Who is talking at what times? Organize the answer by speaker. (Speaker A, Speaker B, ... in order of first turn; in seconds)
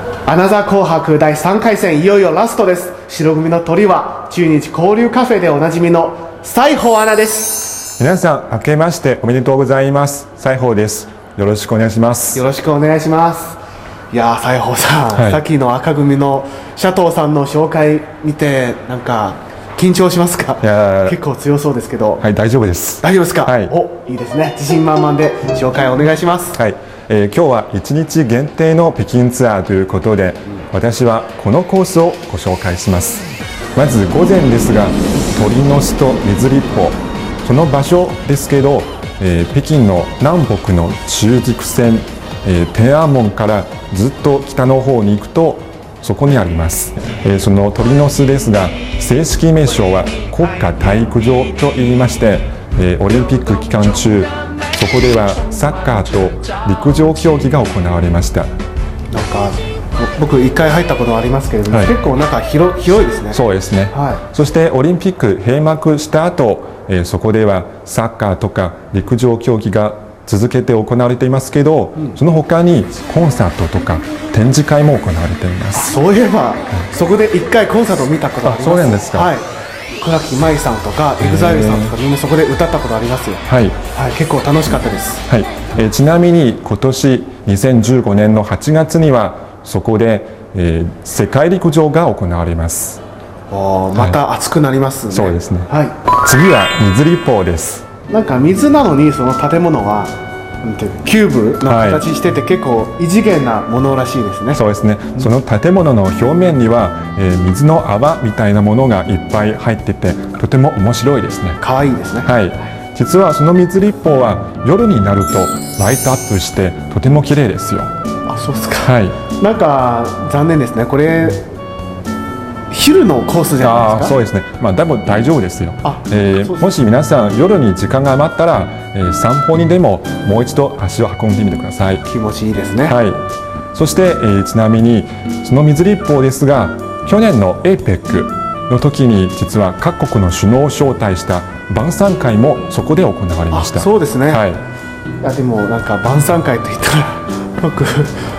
Speaker A: 0.3-7.7, 12.3-13.6, 14.1-22.2, 23.0-26.6, 59.1-64.2, 75.8-79.5, 80.0-85.2, 93.5-96.0, 98.1-104.6, 111.6-112.3, 118.3-121.5, 122.7-124.2, 125.8-126.7, 132.1-133.0, 143.5-144.4, 145.2-148.2
Speaker B: 8.0-12.4, 15.1-15.4, 20.6-21.2, 22.2-23.7, 26.6-58.5, 61.7-61.9, 63.3-76.0, 78.4-79.3, 81.2-82.0, 83.5-83.8, 85.3-93.0, 95.1-95.7, 96.2-97.9, 101.7-102.0, 104.5-111.6, 112.2-117.9, 118.8-119.2, 123.6-132.1, 132.9-144.6